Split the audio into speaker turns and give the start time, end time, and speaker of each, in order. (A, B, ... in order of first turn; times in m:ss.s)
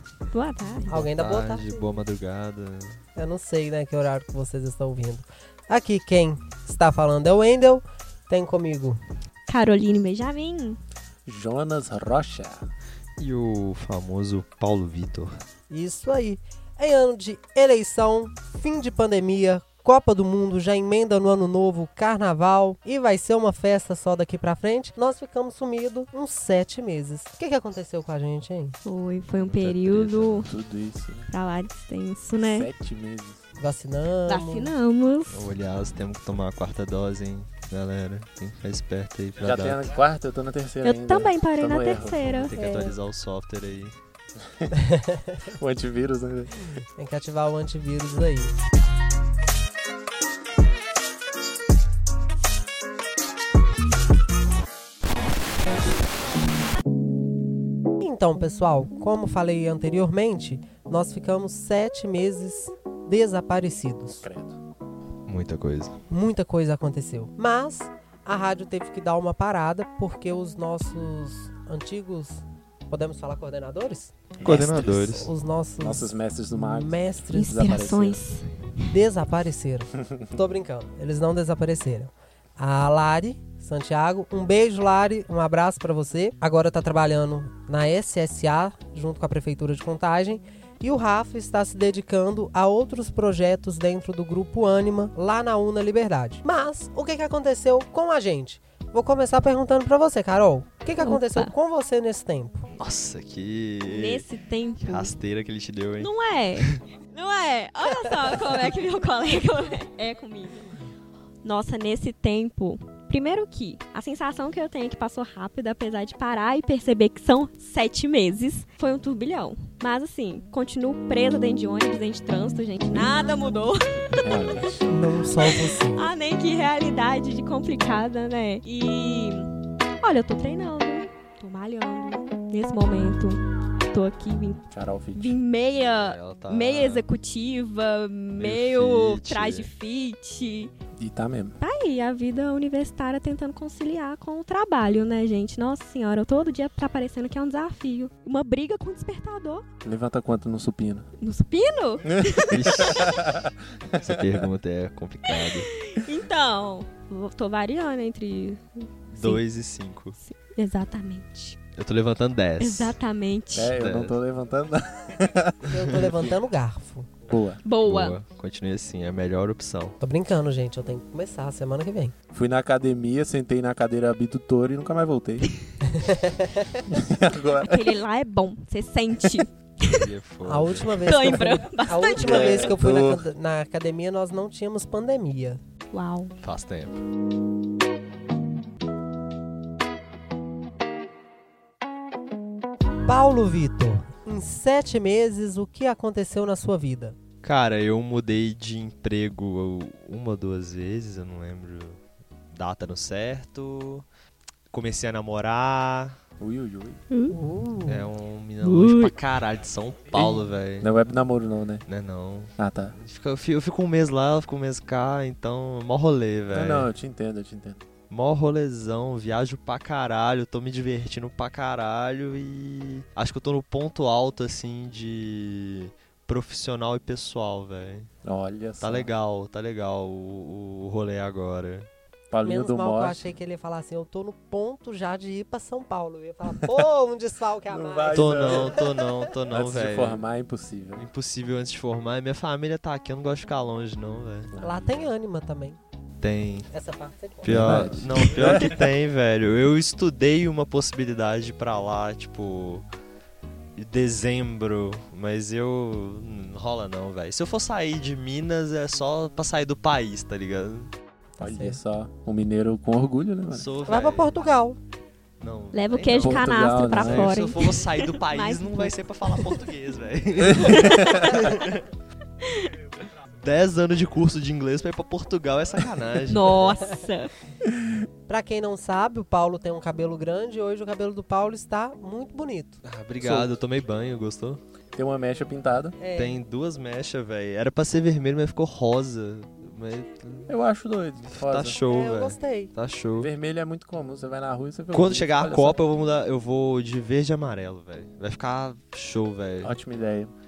0:00.3-0:01.0 A
0:00.9-0:01.9 B
0:00.9-0:03.0 C
0:03.1-0:09.0 B
0:09.5-0:10.8 A
0:11.2-0:12.7 D
0:13.2-0:15.3 C
0:15.7-0:28.8 B
0:28.8-0:30.5 A
0:29.4-0:30.3 C
0:29.9-0:31.3 D
0:31.3-0:32.7 A
0:32.4-0:33.4 D
0:33.6-0:34.8 B
0:34.3-0:35.5 A
0:35.3-0:39.9 C
0:39.4-0:42.3 D
0:40.8-0:42.5 A
0:42.3-0:43.9 C
0:42.5-0:43.0 B
0:44.8-0:45.4 B
0:45.5-0:46.7 D
0:47.0-0:48.5 B
0:58.0-1:04.2 B
1:04.2-1:04.6 D
1:05.3-1:06.0 C
1:06.1-1:17.7 B
1:14.4-1:15.1 D
1:14.4-1:15.3 C
1:15.8-1:18.2 D
1:17.3-1:18.7 A
1:18.9-1:42.7 B
1:41.0-1:41.5 A
1:42.8-1:44.3 C
1:43.8-1:45.1 A
1:44.8-1:46.8 C
1:46.0-1:50.7 A
1:51.4-2:04.5 A
2:04.2-2:05.0 D
2:04.9-2:06.1 B
2:05.4-2:09.5 A
2:10.0-2:20.7 A
2:14.7-2:15.4 D
2:15.8-2:17.1 C
2:18.4-2:19.7 C
2:21.0-2:21.6 D
2:21.6-2:29.6 A
2:29.8-2:31.1 D
2:31.2-2:32.9 A
2:32.4-2:33.5 D
2:32.5-2:33.3 C
2:34.0-2:35.7 C
2:35.3-2:39.4 A
2:39.1-2:40.2 C
2:40.2-2:41.6 A
2:41.7-2:43.0 C
2:42.6-2:43.7 A
2:43.5-2:46.4 D
2:43.6-2:44.2 C
2:45.7-2:47.1 B
2:47.3-2:47.6 D
2:47.6-2:48.2 A
2:47.8-2:50.0 C
2:50.0-2:52.1 B
2:52.3-2:55.5 D
2:55.9-2:56.8 B
2:56.9-2:57.9 D
2:57.6-3:00.1 A
2:59.9-3:01.1 C
3:00.4-3:05.6 B
3:01.0-3:02.4 A
3:02.2-3:03.2 D
3:02.2-3:02.7 C
3:05.9-3:06.3 A
3:06.4-3:07.0 C
3:13.0-3:17.2 B
3:17.4-3:22.0 C
3:22.5-3:24.0 C
3:24.7-3:26.2 C
3:26.4-3:27.0 D
3:27.1-3:27.4 A
3:27.3-3:28.1 B
3:27.9-3:30.9 C
3:28.6-3:29.2 A
3:30.2-3:31.8 D
3:31.9-3:36.9 C
3:32.6-3:33.0 D
3:36.5-3:37.8 D
3:38.1-3:48.1 C
3:48.2-3:49.1 D
3:48.8-3:51.9 C
3:52.3-3:53.3 D
3:52.4-3:59.2 B
3:57.7-3:58.8 D
3:58.1-4:00.2 C
3:59.5-4:01.1 D
4:01.0-4:04.5 C
4:04.5-4:05.0 D
4:04.6-4:05.8 B
4:06.2-4:06.7 C
4:06.7-4:07.6 B
4:07.4-4:12.8 C
4:07.4-4:08.8 D
4:08.4-4:08.7 A
4:13.8-4:20.9 C
4:21.4-4:21.8 B
4:21.4-4:23.7 D
4:23.5-4:24.4 C
4:23.8-4:24.8 B
4:25.4-4:31.8 C
4:25.7-4:29.6 A
4:26.2-4:27.4 D
4:30.5-4:31.4 A
4:30.6-4:31.4 D
4:33.4-4:36.7 C
4:36.3-4:37.3 A
4:38.3-4:42.8 B
4:42.8-4:44.6 C
4:43.2-4:43.6 D
4:45.0-4:46.0 D
4:46.0-4:46.4 B
4:46.1-4:50.5 C
4:50.5-4:51.8 D
4:51.2-4:53.3 C
4:51.9-4:52.7 B
4:53.2-4:55.8 D
4:54.9-4:59.7 C
4:59.6-5:00.3 D